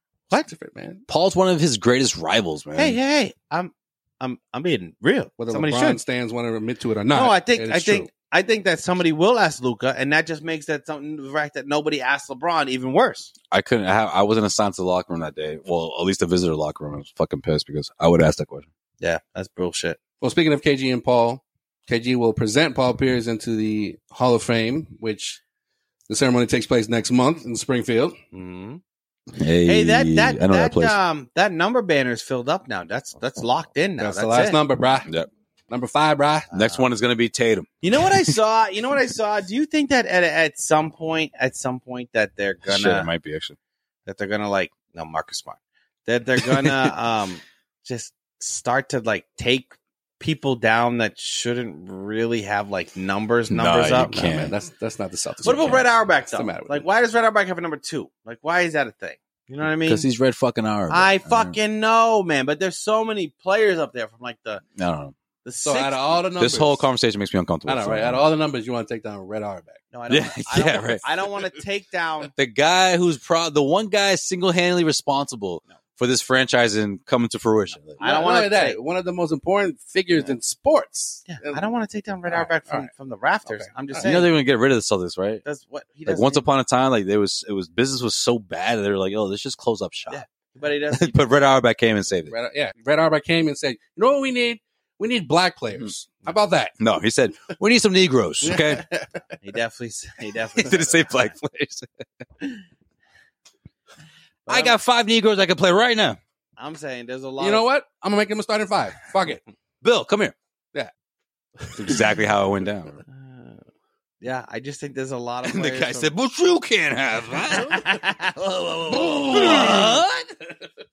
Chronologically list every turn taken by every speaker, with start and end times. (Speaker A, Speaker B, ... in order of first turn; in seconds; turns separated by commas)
Speaker A: 0.5-1.0, Speaker B: 1.1-3.0, Speaker C: 2.8-6.0, Speaker A: 5.4-8.1, Speaker C: 7.1-13.3, Speaker B: 13.5-18.7, Speaker C: 19.0-20.0, Speaker A: 20.2-25.4, Speaker A: 26.1-28.2, Speaker C: 28.3-28.8, Speaker B: 29.4-31.0, Speaker C: 29.6-34.6, Speaker A: 34.0-35.1, Speaker A: 35.7-36.5, Speaker C: 36.5-36.9, Speaker B: 36.5-37.7, Speaker C: 37.8-43.1, Speaker B: 42.7-43.6, Speaker C: 44.1-54.2, Speaker B: 46.4-46.9, Speaker B: 53.5-54.5, Speaker A: 54.1-56.9, Speaker C: 55.4-60.0, Speaker B: 59.9-61.6, Speaker C: 60.9-64.6, Speaker B: 64.8-65.1, Speaker C: 65.5-66.2, Speaker A: 65.6-66.9, Speaker B: 66.4-68.2, Speaker A: 67.7-69.8, Speaker C: 69.9-72.3, Speaker B: 70.1-71.0, Speaker B: 72.3-78.0, Speaker C: 78.0-78.8, Speaker A: 78.0-81.7, Speaker C: 81.3-84.3, Speaker A: 82.3-82.9, Speaker A: 83.5-84.0, Speaker B: 84.0-85.5, Speaker C: 85.5-86.5, Speaker B: 86.1-90.2, Speaker C: 90.1-91.2, Speaker B: 90.9-92.3, Speaker A: 92.3-96.7, Speaker B: 96.8-98.8, Speaker A: 98.4-99.1, Speaker C: 99.4-101.3, Speaker B: 100.6-101.9, Speaker C: 104.5-104.8, Speaker B: 104.5-106.2, Speaker C: 106.6-107.7, Speaker A: 107.4-109.4, Speaker B: 109.8-110.3, Speaker A: 111.6-112.0, Speaker B: 111.8-113.0, Speaker C: 113.1-113.6, Speaker C: 114.2-116.1, Speaker B: 115.5-117.9, Speaker C: 117.6-118.3, Speaker B: 118.4-120.5, Speaker C: 118.9-120.0